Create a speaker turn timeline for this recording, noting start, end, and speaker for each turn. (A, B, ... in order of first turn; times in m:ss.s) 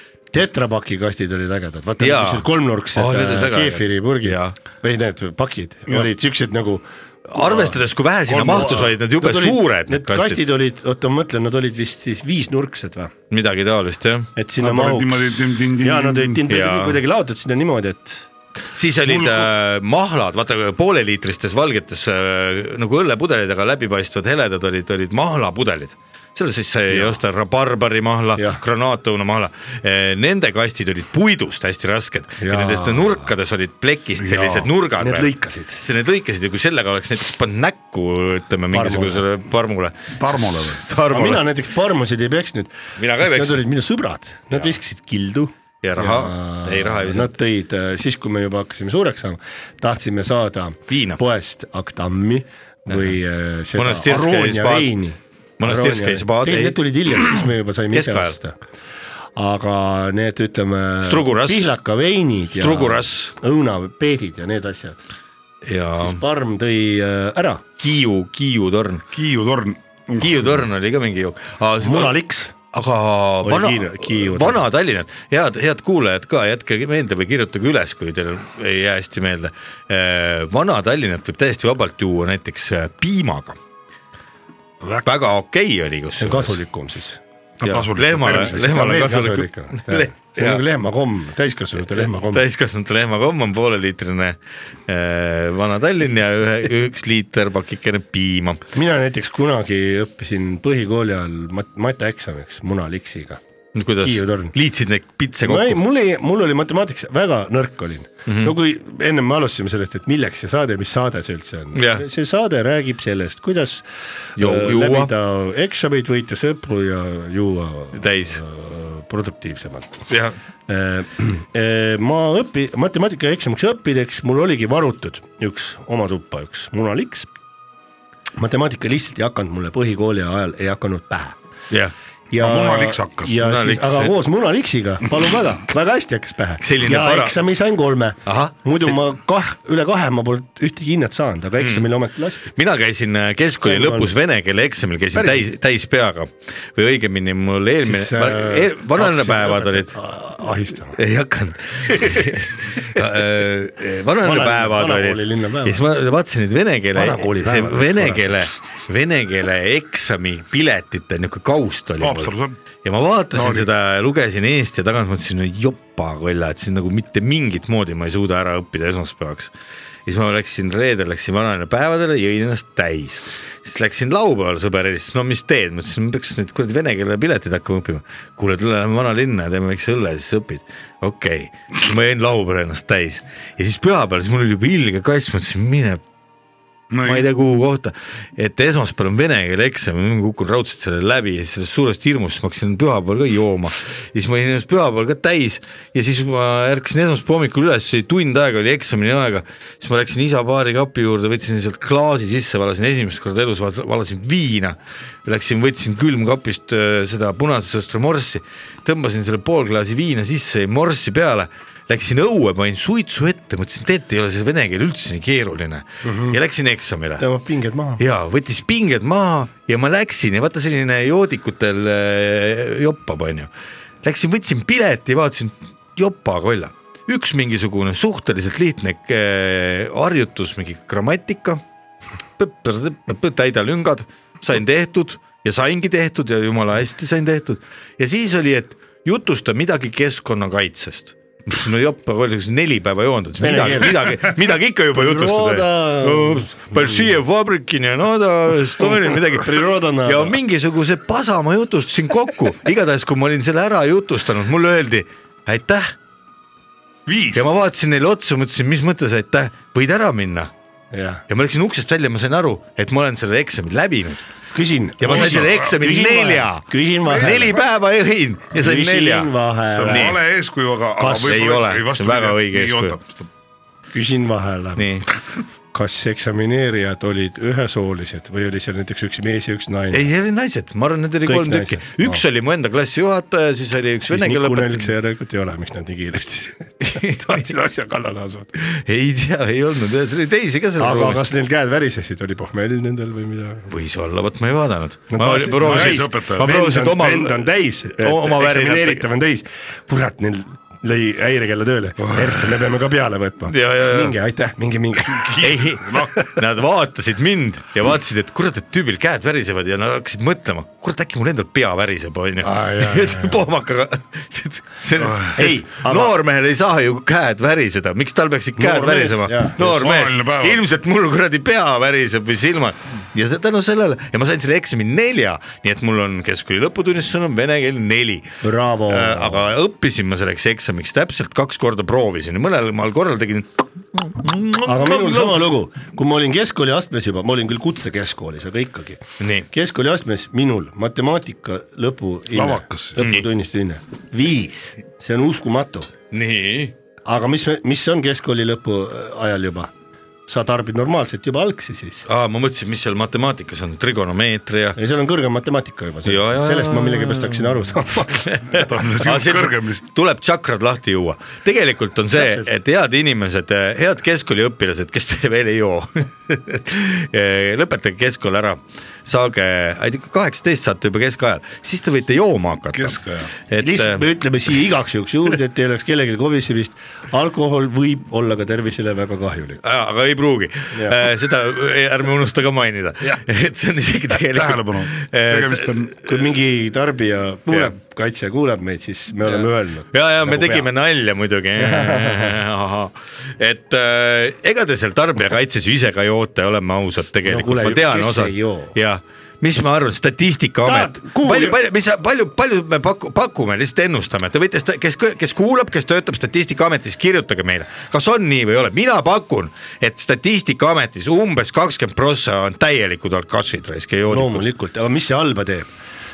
0:00.3-0:13.1 A
0:02.0-0:04.6 B
0:07.3-0:10.5 B
0:13.3-0:14.3 B
0:14.4-0:18.3 A
0:14.6-0:16.5 C
0:16.5-0:17.0 B
0:18.8-0:41.5 B
0:19.1-0:19.5 C
0:26.9-0:27.2 A
0:32.4-0:33.3 A
0:34.2-0:34.7 C
0:35.0-0:35.8 A
0:38.7-0:39.2 A
0:40.2-0:40.8 C
0:41.1-0:58.6 A
0:43.0-0:43.6 B
0:45.8-0:47.3 B
0:50.9-0:51.2 B
0:52.9-0:53.2 B
0:53.8-0:54.9 B
0:55.6-0:58.4 B
0:59.4-1:05.0 A
1:01.0-1:01.7 B
1:02.6-1:03.3 B
1:05.6-1:06.2 B
1:06.0-1:07.6 A
1:07.8-1:09.0 B
1:09.1-1:10.7 C
1:10.2-1:12.2 B
1:11.8-1:12.5 A
1:12.7-1:23.6 B
1:13.4-1:14.7 A
1:24.8-1:25.1 C
1:25.0-1:26.6 B
1:26.2-1:27.2 A
1:27.6-1:29.0 C
1:27.6-1:30.6 B
1:28.2-1:32.4 A
1:32.0-1:38.6 B
1:38.7-1:43.4 A
1:43.7-1:45.8 B
1:44.0-1:44.5 A
1:45.4-1:53.9 A
1:48.3-1:48.6 B
1:51.8-1:52.0 B
1:54.4-1:55.1 B
1:54.4-2:00.0 A
1:57.9-1:58.4 B
2:00.1-2:00.4 B
2:00.7-2:07.3 A
2:08.4-2:11.4 A
2:12.3-2:13.4 C
2:12.3-2:22.5 A
2:13.4-2:14.1 B
2:16.6-2:17.4 B
2:18.3-2:19.0 B
2:21.6-2:21.9 B
2:22.5-2:30.0 B
2:23.6-2:24.1 A
2:25.1-2:25.4 A
2:27.8-2:31.0 A
2:30.9-2:49.5 B
2:31.9-2:32.2 A
2:34.2-2:35.8 A
2:36.9-2:38.3 A
2:42.0-2:42.6 C
2:43.3-2:43.7 C
2:50.1-3:06.0 B
3:06.9-3:07.3 C
3:07.0-3:37.3 B
3:36.0-3:36.4 A
3:37.2-3:38.0 A
3:38.0-3:43.5 B
3:44.0-3:51.6 B
3:52.4-4:15.9 B
4:03.4-4:07.1 A
4:08.8-4:10.4 A
4:17.1-4:17.4 C
4:17.3-4:20.5 B
4:20.9-4:21.2 A
4:21.3-4:24.2 B
4:24.5-4:27.6 A
4:25.0-4:29.3 B
4:25.1-4:25.6 C
4:27.0-4:27.6 C
4:28.5-4:30.2 A
4:29.7-4:33.3 C
4:29.8-4:30.2 B
4:31.0-4:31.4 A
4:31.2-4:33.0 B
4:33.9-4:34.8 A
4:34.8-4:35.1 B
4:35.7-4:40.0 A
4:39.9-4:44.9 B
4:41.2-4:42.2 A
4:44.1-4:48.5 A
4:46.8-4:47.5 B
4:48.6-4:51.2 B
4:50.8-4:53.7 A
4:53.7-4:59.1 B
4:55.1-5:06.0 A
4:55.6-4:56.7 C
5:03.5-5:04.2 B
5:05.2-5:06.1 C
5:05.4-5:28.3 B
5:12.4-5:13.4 A
5:15.0-5:15.3 C
5:15.3-5:16.2 A
5:18.6-5:19.8 A
5:19.6-5:20.6 C
5:28.4-5:29.5 A
5:28.9-5:35.5 B
5:34.6-5:45.9 A
5:39.2-5:39.5 B
5:42.3-5:43.0 C
5:43.0-5:43.3 B
5:46.1-5:46.7 B
5:47.0-5:49.7 A
5:50.3-5:52.0 A
5:52.1-5:54.8 B
5:54.8-5:58.3 A
5:56.0-5:57.5 B
5:58.1-6:14.1 B
5:58.5-5:59.9 C
6:02.1-6:02.5 A
6:12.7-6:13.3 C
6:13.6-6:19.6 A
6:19.6-6:26.1 B
6:24.2-6:25.9 C
6:26.0-6:30.7 A
6:27.5-6:27.7 B
6:29.2-6:54.5 B
6:31.6-6:32.4 A
6:37.2-6:38.7 A
6:40.6-6:41.6 A
6:54.1-6:55.7 A